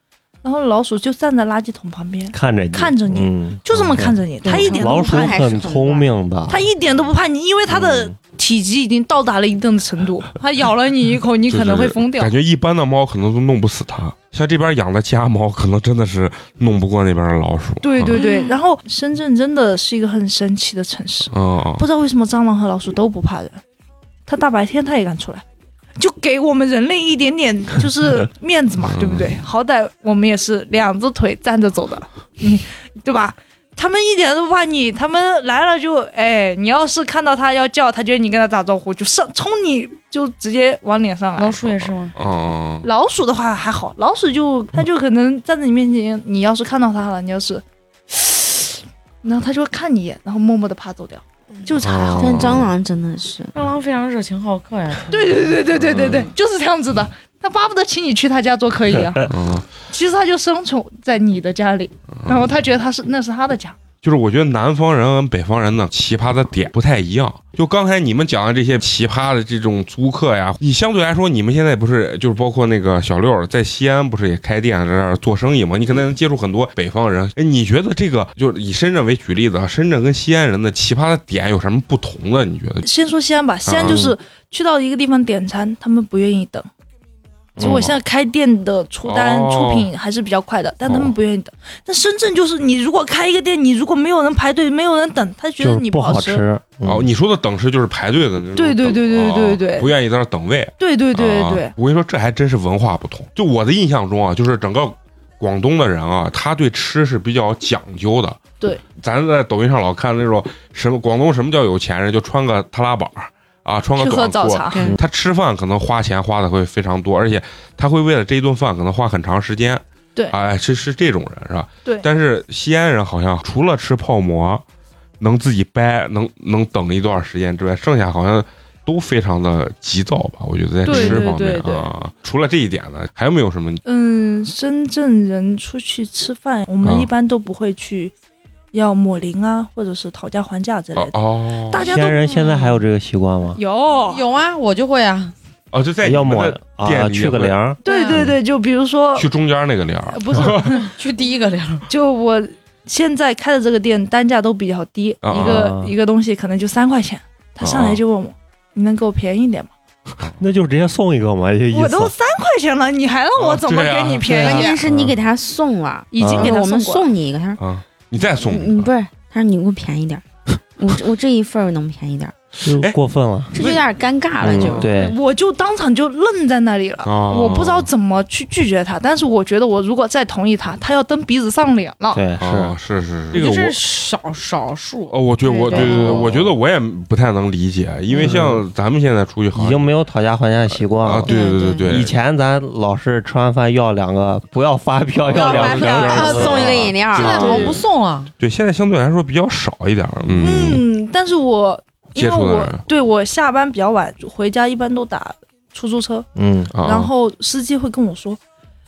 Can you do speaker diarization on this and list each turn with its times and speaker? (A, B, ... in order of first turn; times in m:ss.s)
0:00.4-0:05.6 A
0:02.3-0:06.6 B
0:04.4-0:06.1 C
0:06.5-0:12.3 A
0:11.5-0:18.2 D
0:17.8-0:23.6 A
0:18.2-0:18.5 C
0:21.3-0:21.8 D
0:24.3-0:25.4 A
0:26.0-0:41.6 A
0:28.8-0:29.3 D
0:41.4-0:42.2 E
0:42.2-0:42.9 D
0:42.8-0:52.4 A
0:51.8-0:52.7 D
0:52.1-0:53.5 C
0:53.5-0:55.3 E
0:55.1-1:03.8 A
0:55.8-0:56.2 D
0:59.3-0:59.7 D
1:04.0-1:22.9 D
1:22.8-1:26.7 A
1:23.7-1:24.0 D
1:23.8-1:24.2 B
1:27.6-1:27.9 B
1:27.6-1:36.4 A
1:27.6-1:28.0 D
1:29.0-1:29.9 D
1:30.9-1:31.1 D
1:35.6-1:37.1 B
1:36.8-1:48.4 D
1:38.5-1:39.9 A
1:40.8-1:41.7 A
1:48.9-2:04.6 D
1:54.0-1:54.9 A
2:05.2-2:13.8 D
2:10.8-2:11.9 A
2:11.0-2:11.2 B
2:13.8-2:18.1 A
2:16.8-2:17.1 D
2:18.7-2:21.2 A
2:21.0-2:21.9 D
2:21.7-2:22.6 A
2:21.8-2:23.6 B
2:23.6-2:24.2 A
2:24.0-2:25.3 E
2:25.7-2:27.6 D
2:26.0-2:28.3 B
2:27.8-2:29.3 A
2:27.9-2:28.2 E
2:29.2-2:30.8 D
2:30.1-2:30.9 A
2:30.6-2:31.9 E
2:31.9-2:39.7 A
2:35.2-2:35.6 D
2:35.3-2:35.9 B
2:37.6-2:38.0 D
2:40.4-2:42.1 B
2:41.7-2:44.8 A
2:43.4-2:44.4 D
2:44.3-2:45.1 B
2:44.4-2:47.6 C
2:46.1-2:47.0 A
2:46.2-2:46.5 B
2:47.6-2:48.9 D
2:48.4-2:50.2 C
2:50.8-2:52.3 C
2:52.6-2:53.5 B
2:53.5-2:54.9 C
2:53.6-2:53.8 D
2:54.4-2:55.2 B
2:54.4-2:54.9 D
2:54.9-3:02.2 A
2:57.0-2:57.9 D
3:02.1-3:02.8 B
3:02.4-3:03.8 D
3:03.3-3:06.3 E
3:05.1-3:09.9 D
3:05.7-3:06.5 B
3:08.1-3:08.6 B
3:09.5-3:11.3 B
3:10.7-3:12.1 D
3:11.3-3:11.8 E
3:11.3-3:11.8 C
3:11.8-3:17.5 B
3:15.3-3:17.7 D
3:15.3-3:17.7 C
3:15.6-3:18.3 E
3:17.2-3:17.8 A
3:18.4-3:20.8 D
3:20.4-3:26.3 A
3:22.2-3:22.8 D
3:26.4-3:26.7 B
3:26.7-3:27.1 D
3:26.8-3:28.4 A